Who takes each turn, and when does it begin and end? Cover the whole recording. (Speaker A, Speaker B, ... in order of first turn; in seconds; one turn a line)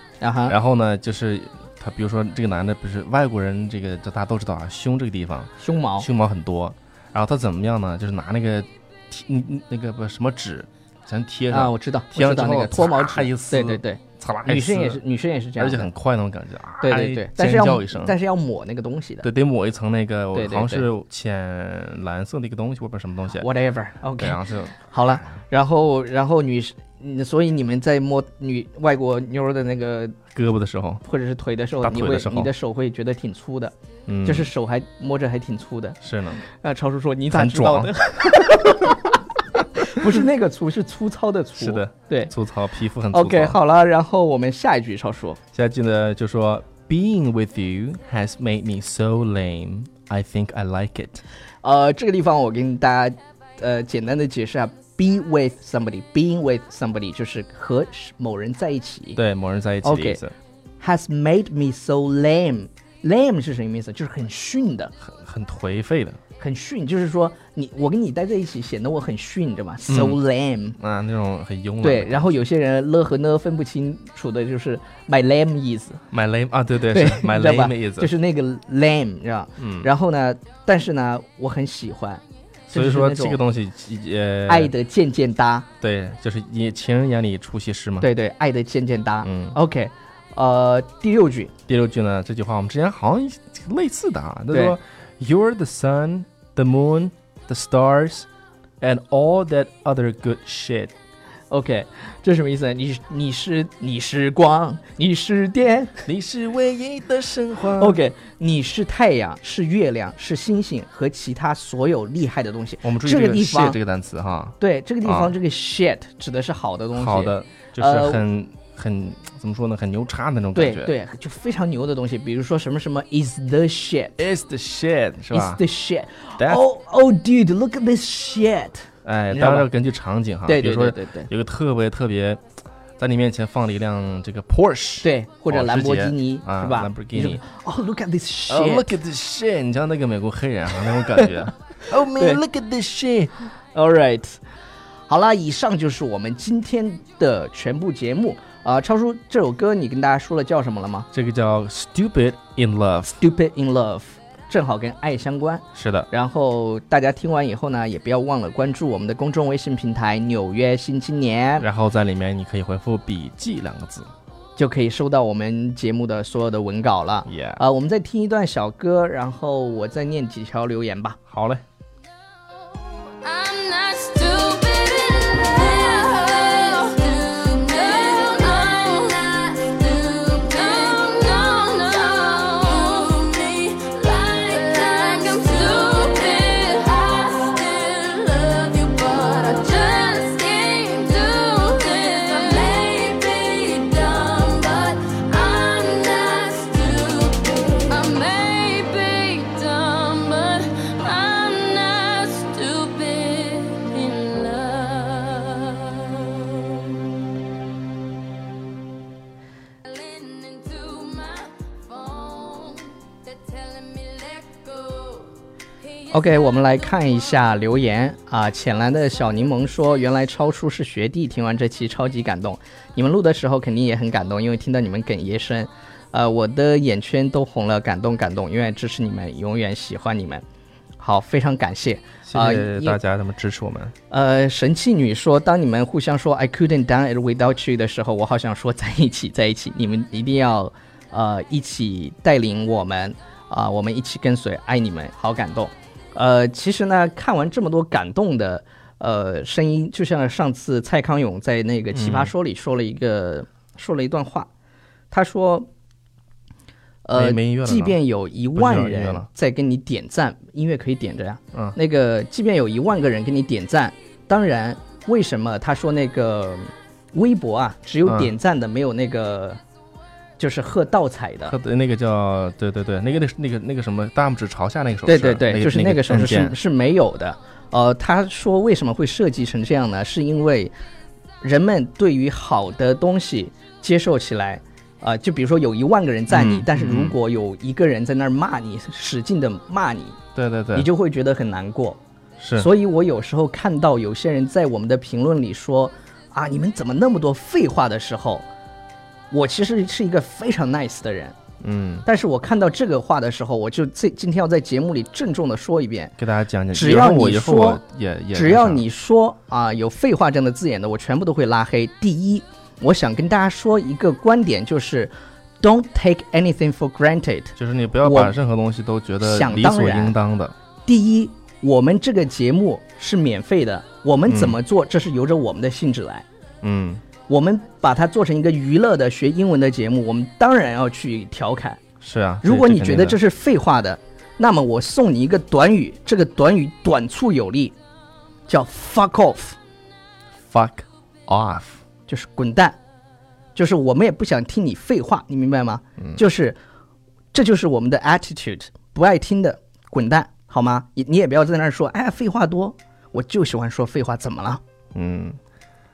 Speaker A: 0.2-0.5
Speaker B: 0.5-15.0
Speaker A: 5.6-6.1
Speaker A: 11.5-15.9
Speaker B: 15.6-18.1
Speaker A: 16.8-19.2
Speaker B: 19.2-23.5
Speaker A: 20.3-20.9
Speaker A: 23.4-30.2
Speaker B: 24.2-25.3
Speaker B: 30.3-31.0
Speaker A: 31.0-39.2
Speaker B: 31.8-32.5
Speaker B: 34.1-34.5
Speaker B: 36.0-36.4
Speaker B: 37.3-38.3
Speaker A: 39.8-42.3
Speaker B: 41.6-43.6
Speaker A: 43.1-45.4
Speaker B: 45.5-51.2
Speaker A: 51.6-59.2
Speaker B: 59.2-60.3
Speaker A: 59.8-60.2
Speaker A: 60.8-64.9
Speaker B: 65.0-66.2
Speaker A: 66.4-70.8
Speaker B: 69.9-70.2
Speaker B: 70.8-72.3
Speaker A: 71.8-76.0
Speaker B: 76.1-78.1
Speaker A: 76.9-83.4
Speaker B: 79.6-79.9
Speaker B: 82.7-84.7
Speaker A: 84.5-85.7
Speaker B: 85.8-88.1
Speaker A: 88.0-91.5
Speaker B: 89.2-89.6
Speaker B: 91.7-98.3
Speaker A: 94.5-94.8
Speaker B: 98.8-100.9
Speaker A: 101.5-106.0
Speaker B: 106.1-108.0
Speaker A: 107.8-113.8
Speaker B: 112.8-115.3
Speaker A: 114.6-118.2
Speaker B: 116.9-120.9
Speaker A: 120.6-124.2
Speaker B: 124.2-125.6
Speaker A: 125.3-129.7
Speaker B: 129.1-132.4
Speaker A: 130.4-131.3
Speaker B: 133.0-137.4
Speaker A: 135.0-138.9
Speaker B: 138.5-143.3
Speaker A: 142.1-142.4
Speaker A: 143.7-144.4
Speaker A: 145.1-151.1
Speaker B: 151.1-153.1
Speaker A: 153.1-161.7
Speaker B: 155.7-156.1
Speaker B: 161.6-164.1
Speaker A: 164.6-171.2
Speaker B: 167.3-167.6
Speaker B: 171.3-171.6
Speaker C: 173.1-207.1
Speaker C: 209.8-215.3
Speaker A: 216.1-230.4
Speaker A: 231.0-233.0
Speaker B: 232.2-233.9
Speaker A: 234.1-254.5
Speaker B: 251.9-252.3
Speaker A: 255.1-255.7
Speaker A: 257.1-269.6
Speaker B: 257.1-258.0
Speaker B: 258.6-259.3
Speaker B: 268.1-268.3
Speaker A: 270.4-271.6
Speaker B: 271.5-276.6
Speaker A: 275.1-280.7
Speaker A: 281.4-290.2
Speaker B: 286.3-287.2
Speaker B: 290.3-290.9
Speaker A: 290.7-292.0
Speaker B: 292.4-292.7
Speaker A: 292.6-298.4
Speaker A: 299.3-301.3
Speaker B: 301.6-302.1
Speaker A: 302.1-306.2
Speaker B: 306.2-308.8
Speaker A: 306.7-307.8
Speaker A: 308.3-318.4
Speaker B: 317.6-320.5
Speaker A: 319.2-320.1
Speaker A: 320.9-326.2
Speaker B: 324.3-324.6
Speaker B: 326.6-327.0
Speaker A: 327.3-331.8
Speaker B: 332.0-333.2
Speaker A: 332.4-337.7
Speaker A: 338.5-339.6
Speaker B: 340.5-341.8
Speaker A: 342.1-342.8
Speaker A: 343.6-346.6
Speaker A: 347.3-354.6
Speaker B: 354.9-355.4